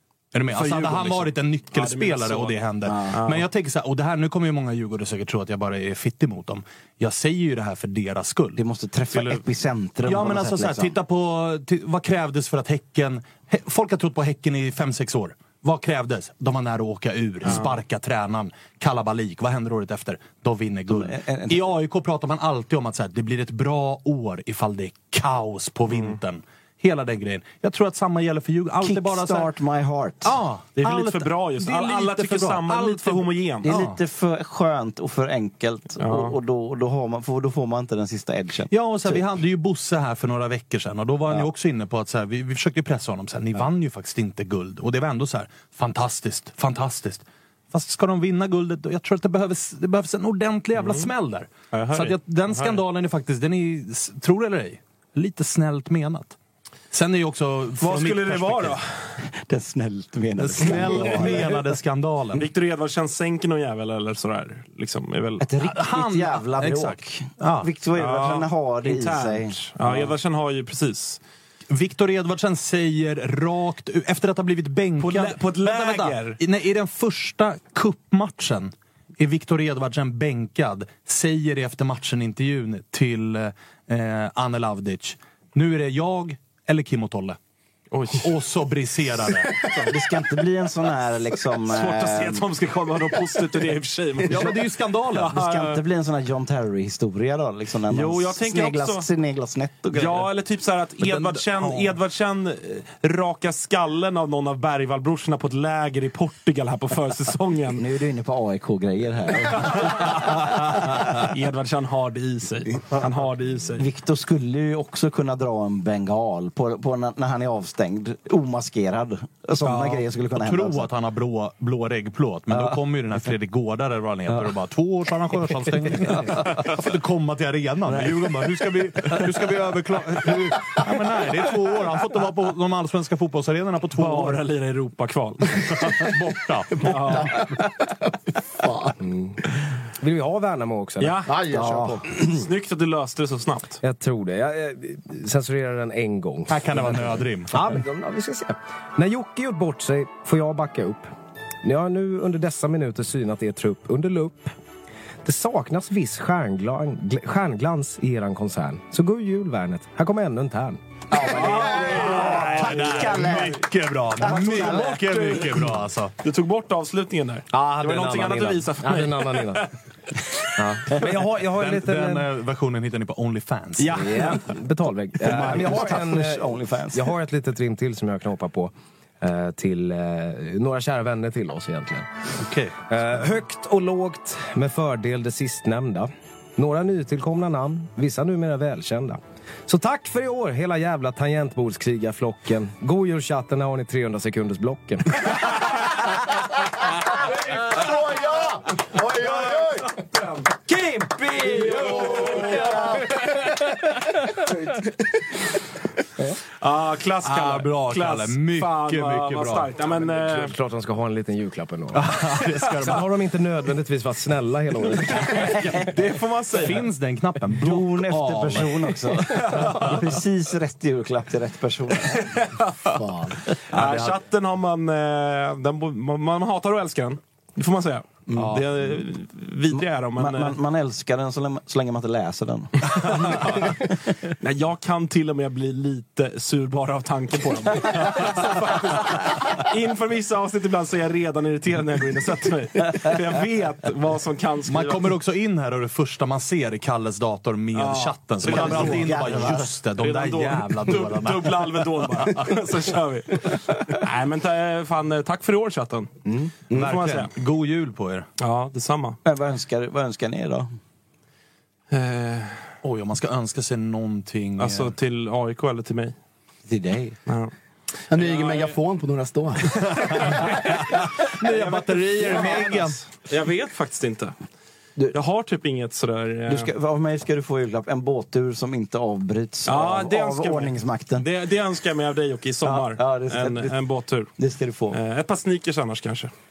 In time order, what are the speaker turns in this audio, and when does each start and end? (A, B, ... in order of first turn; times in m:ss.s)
0:00.3-0:08.6 A
0:00.5-0:03.5 B
0:02.8-0:03.1 C
0:08.6-0:10.9 C
0:10.0-0:29.5 A
0:17.4-0:17.8 B
0:20.9-0:21.7 C
0:25.9-0:26.2 B
0:28.8-0:30.3 C
0:30.2-0:34.0 A
0:30.8-0:33.7 B
0:33.6-0:39.2 C
0:36.0-0:36.4 B
0:38.7-0:56.4 A
0:50.8-0:51.1 B
0:51.7-0:52.8 B
0:56.9-0:58.8 A
0:57.8-0:59.2 B
0:59.3-1:01.5 C
1:00.4-1:02.5 A
1:02.3-1:05.4 B
1:05.4-1:10.1 C
1:05.6-1:07.7 A
1:07.9-1:11.2 B
1:11.7-1:27.4 A
1:15.0-1:16.4 B
1:27.9-1:28.3 B
1:28.2-1:29.6 A
1:29.6-1:29.9 B
1:29.8-1:32.4 C
1:31.6-1:35.8 B
1:34.3-1:35.4 A
1:35.3-1:40.3 C
1:37.9-1:39.1 B
1:39.9-1:47.8 B
1:41.0-1:41.9 A
1:47.8-1:50.3 C
1:49.6-1:53.8 B
1:53.8-2:00.9 C
1:59.6-2:00.0 B
2:00.3-2:14.4 A
2:14.0-2:16.0 B
2:15.6-2:17.6 A
2:16.8-2:17.4 B
2:18.6-2:18.9 D
2:19.0-2:19.4 E
2:20.0-2:21.3 E
2:21.0-2:21.3 B
2:21.3-2:22.0 D
2:21.5-2:22.0 C
2:22.2-2:23.8 B
2:23.8-2:31.1 E
2:26.5-2:27.8 A
2:31.6-2:34.5 E
2:35.2-2:40.8 E
2:41.1-2:43.7 C
2:41.2-2:43.5 B
2:41.4-2:46.1 A
2:44.2-2:44.9 C
2:44.2-2:45.7 B
2:46.2-2:49.7 B
2:47.6-2:48.6 A
2:48.8-2:49.7 E
2:50.6-2:52.3 E
2:50.9-2:54.4 A
2:53.8-3:02.1 E
2:53.9-2:54.3 B
2:55.2-2:57.1 C
3:02.4-3:02.8 A
3:02.9-3:15.6 E
3:17.6-3:19.9 D
3:21.0-3:22.7 B
3:21.9-3:23.0 D
3:26.6-3:30.6 B
3:27.2-3:29.7 A
3:30.1-3:32.1 E
3:31.9-3:33.1 A
3:32.8-3:35.8 E
3:35.3-3:36.9 B
3:36.5-3:40.0 A
3:37.6-3:42.3 C
3:39.3-3:40.0 B
3:42.2-3:43.0 B
3:42.9-3:43.4 D
3:43.7-3:50.6 B
3:43.7-3:44.2 A
3:48.3-3:48.8 A
3:49.7-3:53.4 C
3:52.9-3:53.8 B
3:54.4-4:05.1 B
4:04.7-4:12.3 A
4:07.7-4:16.1 B
4:08.4-4:09.7 C
4:16.2-4:16.5 C
4:16.7-4:17.3 B
4:16.7-4:18.3 A
4:18.4-4:19.2 B
4:19.2-4:20.7 C
4:21.9-4:22.6 B
4:22.8-4:24.9 A
4:24.6-4:26.2 B
4:26.7-4:27.2 C
4:27.2-4:27.5 B
4:28.1-4:30.4 D
4:28.1-4:28.8 B
4:29.8-4:30.8 B
4:30.1-4:33.0 A
4:31.4-4:34.3 B
4:35.1-4:36.7 B
4:36.5-4:41.3 C
4:39.6-4:44.3 B
4:42.6-4:43.8 C
4:44.4-4:45.0 C
4:44.9-4:46.3 B